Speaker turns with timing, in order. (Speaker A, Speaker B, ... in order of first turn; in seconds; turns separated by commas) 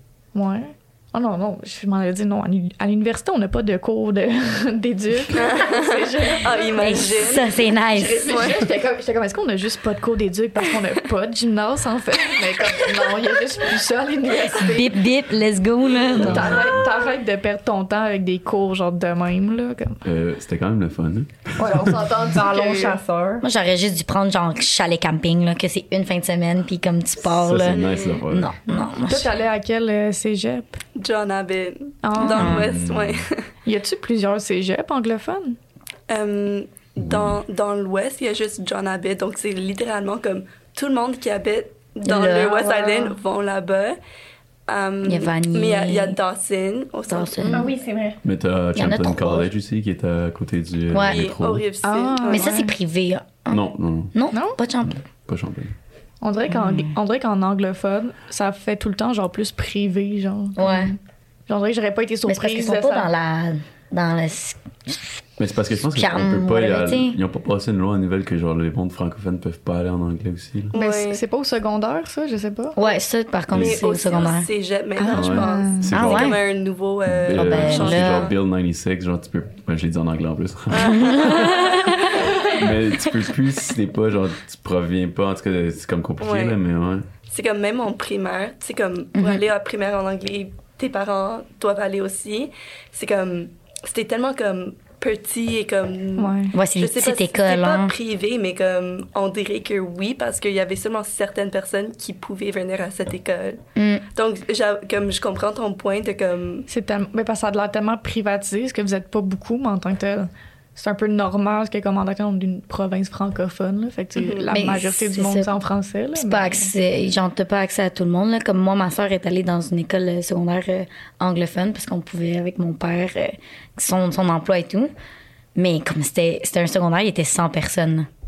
Speaker A: 0.3-7.0, Speaker B: 5.3-7.6, Speaker C: 6.8-8.6, Speaker A: 7.9-15.0, Speaker B: 8.2-8.6, Speaker C: 14.6-16.7, Speaker A: 16.1-20.0, Speaker D: 16.2-16.6, Speaker D: 20.0-22.0, Speaker A: 21.6-23.0, Speaker E: 21.9-23.4, Speaker C: 23.4-29.3, Speaker D: 27.2-28.5, Speaker B: 27.7-28.2, Speaker A: 29.0-30.8, Speaker B: 30.9-33.5, Speaker A: 32.0-32.6, Speaker C: 32.2-32.8, Speaker D: 32.4-33.2, Speaker A: 33.6-35.6, Speaker B: 36.1-44.0, Speaker D: 37.0-37.4, Speaker C: 42.0-42.6, Speaker A: 42.6-43.1, Speaker B: 44.7-47.6, Speaker C: 45.0-46.1, Speaker C: 47.1-47.7, Speaker E: 47.5-48.2, Speaker D: 48.2-51.6, Speaker C: 48.8-49.5, Speaker C: 50.9-51.2, Speaker B: 51.0-52.6, Speaker A: 51.8-52.7, Speaker C: 52.3-55.0, Speaker D: 53.5-54.1, Speaker A: 54.3-54.6, Speaker D: 54.9-55.7, Speaker A: 56.2-63.1, Speaker C: 56.5-56.9, Speaker C: 60.6-60.9, Speaker C: 62.2-65.2, Speaker D: 65.4-70.7, Speaker C: 65.9-67.2, Speaker B: 70.7-71.2, Speaker A: 70.7-72.8, Speaker C: 72.8-74.5, Speaker D: 73.5-73.8, Speaker B: 73.5-78.3, Speaker A: 75.0-75.9, Speaker D: 75.1-76.4, Speaker C: 75.9-76.4, Speaker D: 77.1-87.1, Speaker C: 77.3-78.3, Speaker B: 80.7-82.2, Speaker C: 80.8-82.2, Speaker B: 86.2-86.6, Speaker B: 87.3-103.6, Speaker C: 89.1-89.4, Speaker A: 96.2-96.5, Speaker C: 96.5-97.9, Speaker C: 103.8-104.0, Speaker B: 104.2-106.7, Speaker A: 106.7-116.7, Speaker B: 114.2-114.5, Speaker C: 114.5-115.5, Speaker C: 116.1-124.9, Speaker C: 125.5-128.1